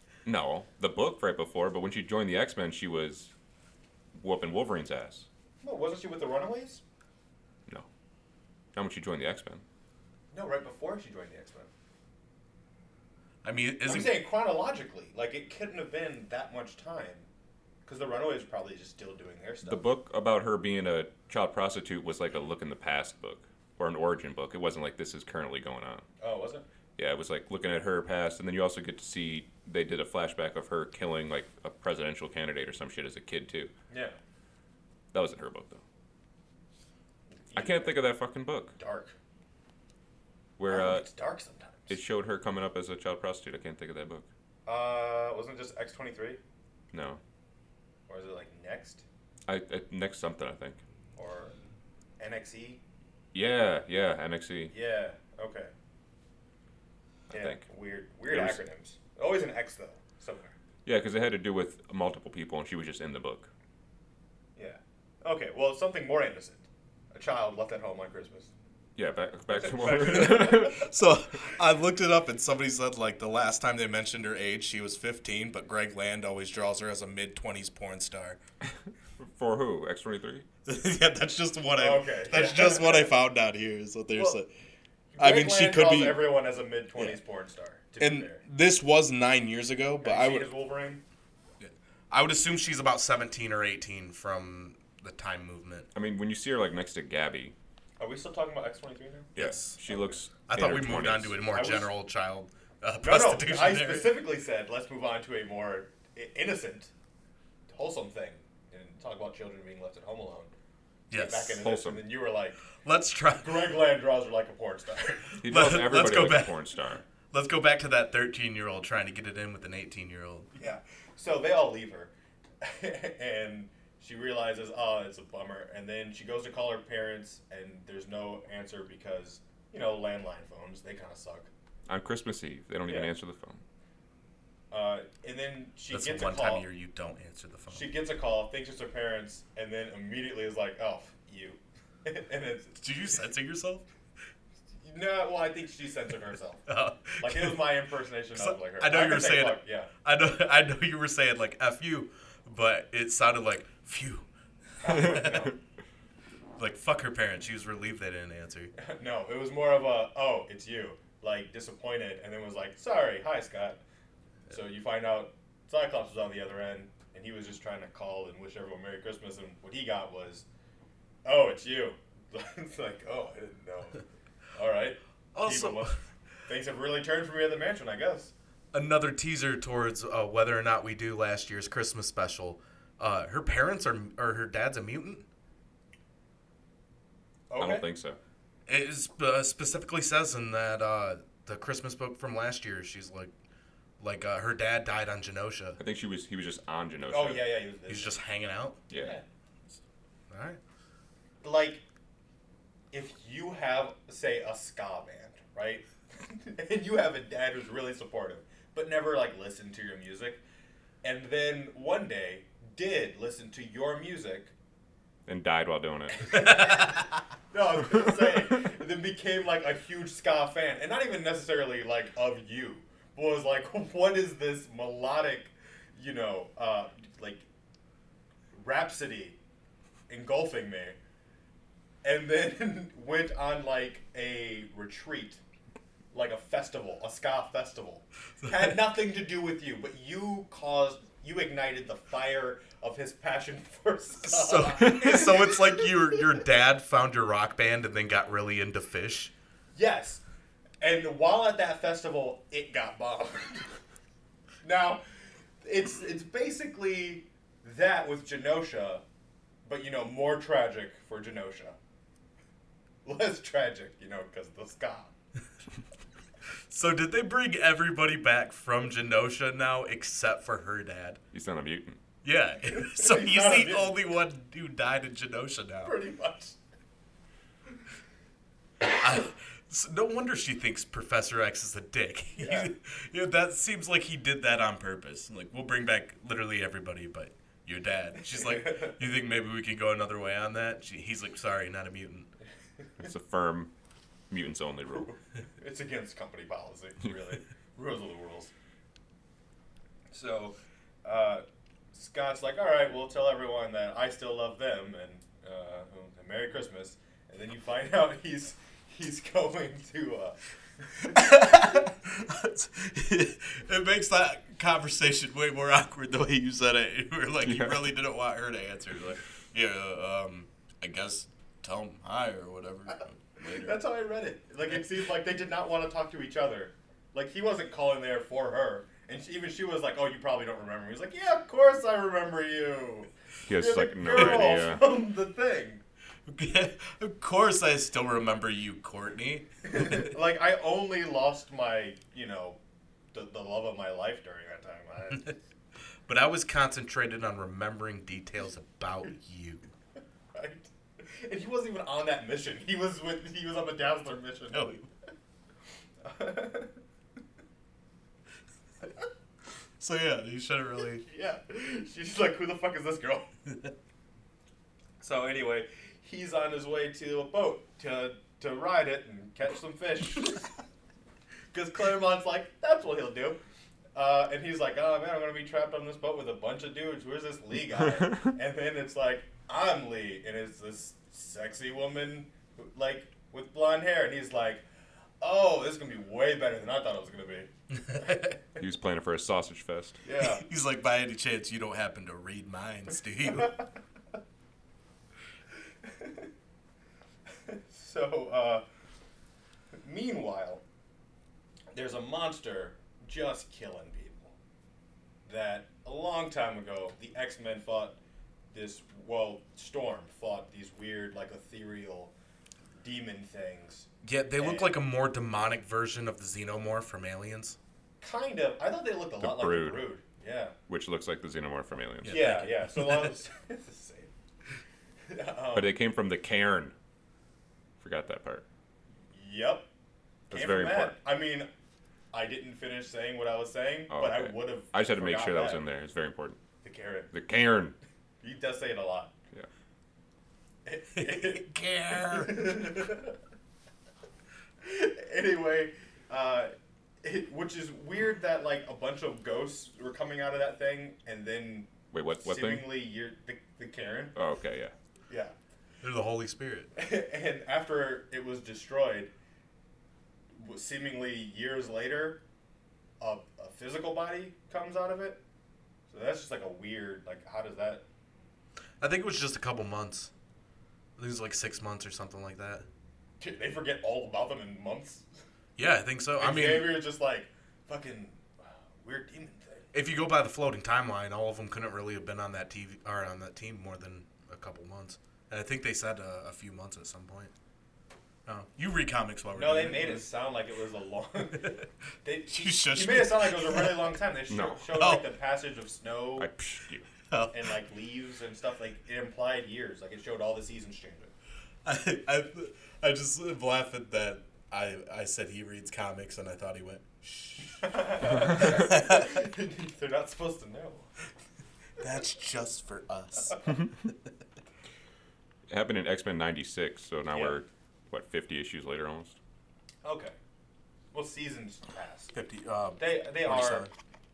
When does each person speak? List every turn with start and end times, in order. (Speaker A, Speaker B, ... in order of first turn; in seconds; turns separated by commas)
Speaker A: 0.2-3.3, Speaker A: 4.1-5.3, Speaker B: 5.6-6.8, Speaker A: 8.7-9.6, Speaker B: 10.3-11.7, Speaker C: 13.4-14.2, Speaker B: 13.9-17.3, Speaker B: 17.9-19.8, Speaker A: 19.6-26.1, Speaker B: 26.2-26.7, Speaker A: 27.0-33.7, Speaker B: 33.9-34.2, Speaker A: 35.1-35.8, Speaker B: 37.3-38.0, Speaker A: 37.5-38.7, Speaker B: 38.8-39.1, Speaker A: 40.6-41.1, Speaker B: 40.7-42.0, Speaker A: 41.9-44.3, Speaker B: 44.7-46.4, Speaker A: 46.9-47.2, Speaker B: 48.1-49.0, Speaker A: 49.5-50.8, Speaker B: 51.2-51.6, Speaker B: 52.2-52.8, Speaker A: 53.3-54.7, Speaker B: 54.7-55.7, Speaker A: 57.3-57.6, Speaker B: 57.3-60.5, Speaker A: 58.3-58.6, Speaker A: 60.9-63.5, Speaker B: 64.6-68.5, Speaker A: 69.0-70.9, Speaker B: 69.5-70.8, Speaker C: 70.0-78.4, Speaker A: 78.6-80.5, Speaker C: 80.7-84.5, Speaker B: 81.8-83.1, Speaker B: 85.2-88.4, Speaker C: 85.2-86.3, Speaker C: 88.0-90.5, Speaker B: 90.0-91.0, Speaker C: 91.6-95.9, Speaker A: 96.0-97.5, Speaker B: 98.0-99.3, Speaker A: 99.3-101.4, Speaker C: 99.4-99.8, Speaker C: 100.5-104.2, Speaker B: 101.5-101.9, Speaker B: 103.0-106.9, Speaker B: 107.7-110.5, Speaker B: 111.1-112.6, Speaker C: 111.1-111.6, Speaker A: 111.6-112.0, Speaker C: 112.8-113.8, Speaker B: 113.4-115.4, Speaker C: 115.4-116.6, Speaker A: 115.4-117.0, Speaker C: 117.3-120.5, Speaker B: 120.5-131.5, Speaker A: 131.9-133.6, Speaker B: 132.9-133.1, Speaker B: 134.7-136.7, Speaker C: 135.9-137.9, Speaker B: 137.7-142.8, Speaker C: 142.8-143.9, Speaker B: 144.8-146.6, Speaker C: 146.7-147.8, Speaker B: 147.2-149.9, Speaker C: 148.3-154.3, Speaker B: 154.8-155.6, Speaker C: 154.8-155.5, Speaker C: 156.6-158.7, Speaker B: 158.8-163.8, Speaker B: 164.5-170.5, Speaker B: 171.2-178.3, Speaker C: 175.3-176.0, Speaker C: 178.7-185.2, Speaker B: 187.5-187.9, Speaker A: 187.6-188.2, Speaker C: 188.7-193.3, Speaker C: 194.0-195.8, Speaker A: 195.8-197.5, Speaker B: 197.1-198.2, Speaker C: 197.9-198.8, Speaker A: 198.9-199.2, Speaker B: 198.9-199.2, Speaker C: 200.3-200.6, Speaker B: 201.4-201.8, Speaker B: 202.9-210.4, Speaker B: 211.0-214.5, Speaker A: 215.3-216.4, Speaker B: 216.2-227.4, Speaker C: 216.4-217.0, Speaker B: 228.5-229.4, Speaker B: 230.1-231.0, Speaker B: 232.0-235.4, Speaker B: 236.1-246.2, Speaker C: 238.4-238.7, Speaker C: 244.2-249.3, Speaker B: 249.8-250.2, Speaker B: 250.8-253.7, Speaker B: 254.6-255.0, Speaker B: 255.6-259.0, Speaker B: 259.6-261.8, Speaker B: 263.1-265.1, Speaker C: 266.7-271.2, Speaker A: 271.3-272.0, Speaker C: 272.2-276.0, Speaker B: 272.8-273.9, Speaker B: 275.8-276.6, Speaker C: 278.8-292.3, Speaker B: 282.4-282.7, Speaker B: 288.4-289.0, Speaker A: 293.0-293.7, Speaker A: 294.3-295.1, Speaker B: 294.9-298.5, Speaker B: 300.1-310.4, Speaker C: 311.1-323.8, Speaker A: 317.4-317.9, Speaker B: 323.4-335.8, Speaker A: 333.5-334.8, Speaker C: 336.3-340.1, Speaker B: 339.7-342.6, Speaker B: 343.1-345.4, Speaker C: 346.1-349.7, Speaker B: 350.3-354.8, Speaker C: 354.5-354.9, Speaker B: 356.0-356.7, Speaker C: 359.8-361.0, Speaker B: 361.0-363.3, Speaker B: 365.0-370.5, Speaker B: 371.5-373.4, Speaker B: 373.9-384.6, Speaker B: 385.2-387.5, Speaker C: 387.9-388.4, Speaker A: 388.6-390.0, Speaker B: 390.0-390.4, Speaker C: 390.2-393.6, Speaker B: 395.8-396.3, Speaker B: 397.4-398.6, Speaker B: 399.7-400.6, Speaker B: 401.7-404.4, Speaker B: 405.2-408.0, Speaker B: 408.5-412.1, Speaker B: 412.8-414.8, Speaker C: 414.0-417.6, Speaker B: 418.0-420.6, Speaker A: 419.2-419.9, Speaker A: 420.7-422.3, Speaker C: 422.0-423.1, Speaker B: 422.1-424.1, Speaker B: 425.1-425.7, Speaker A: 425.5-426.8, Speaker A: 427.8-428.4, Speaker B: 429.1-429.7, Speaker A: 430.3-431.0, Speaker B: 430.3-431.5, Speaker B: 432.1-435.6, Speaker A: 433.9-436.4, Speaker B: 436.6-437.1, Speaker A: 437.1-437.8, Speaker B: 438.2-439.1, Speaker B: 440.7-443.1, Speaker C: 440.9-442.9, Speaker B: 444.6-454.2, Speaker A: 451.9-452.7, Speaker A: 454.1-454.7, Speaker B: 455.1-455.4, Speaker C: 455.8-456.7, Speaker B: 456.8-459.1, Speaker B: 460.4-462.2, Speaker B: 463.0-465.2, Speaker B: 465.9-467.8, Speaker C: 468.8-470.1, Speaker C: 471.0-472.7, Speaker B: 473.2-475.1, Speaker C: 475.6-476.8, Speaker B: 476.2-479.7, Speaker C: 479.7-487.3, Speaker C: 488.3-490.1, Speaker B: 489.3-496.3, Speaker C: 492.3-493.9, Speaker A: 494.3-494.7, Speaker C: 494.7-495.1, Speaker A: 496.2-496.9, Speaker C: 497.1-497.5, Speaker B: 497.3-501.1, Speaker C: 501.6-509.2, Speaker B: 507.6-510.9, Speaker C: 511.8-513.9, Speaker A: 515.5-519.2, Speaker B: 517.1-517.4, Speaker B: 519.8-520.1, Speaker B: 520.9-522.1, Speaker C: 522.1-523.7, Speaker B: 522.8-523.7